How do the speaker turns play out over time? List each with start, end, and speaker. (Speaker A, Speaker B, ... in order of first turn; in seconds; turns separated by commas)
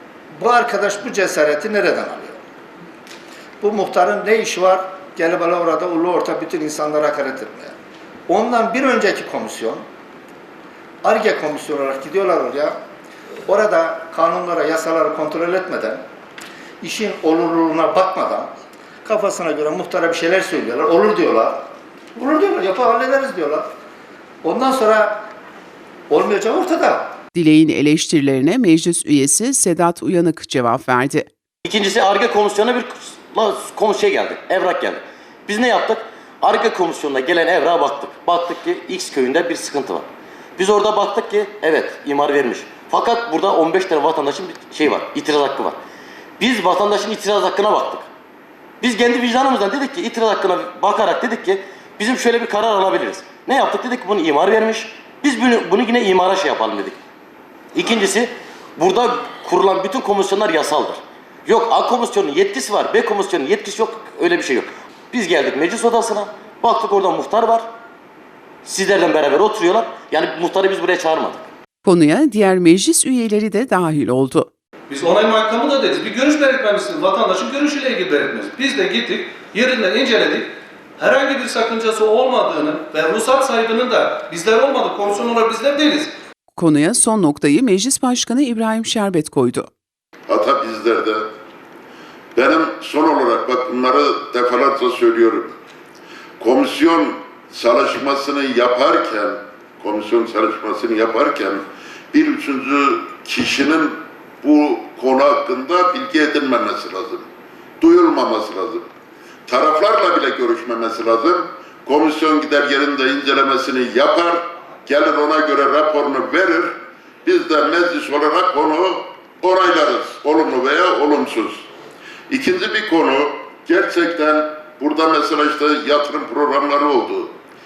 Speaker A: 0.4-2.4, Speaker A: 3.6-7.7, Speaker A: 8.3-9.8, Speaker A: 11.0-12.8, Speaker A: 13.5-16.0, Speaker A: 16.8-18.5, Speaker A: 19.0-21.6, Speaker A: 22.1-23.7, Speaker A: 24.4-25.2, Speaker A: 26.1-27.1, Speaker B: 27.3-31.3, Speaker C: 31.6-45.8, Speaker C: 46.4-48.1, Speaker C: 48.8-57.0, Speaker C: 57.7-67.7, Speaker C: 68.7-71.4, Speaker B: 71.8-74.5, Speaker D: 74.9-86.1, Speaker B: 86.6-89.7, Speaker E: 90.3-91.3, Speaker E: 92.3-95.6, Speaker E: 96.4-107.3, Speaker E: 107.8-108.9, Speaker E: 109.5-121.7, Speaker E: 122.3-127.3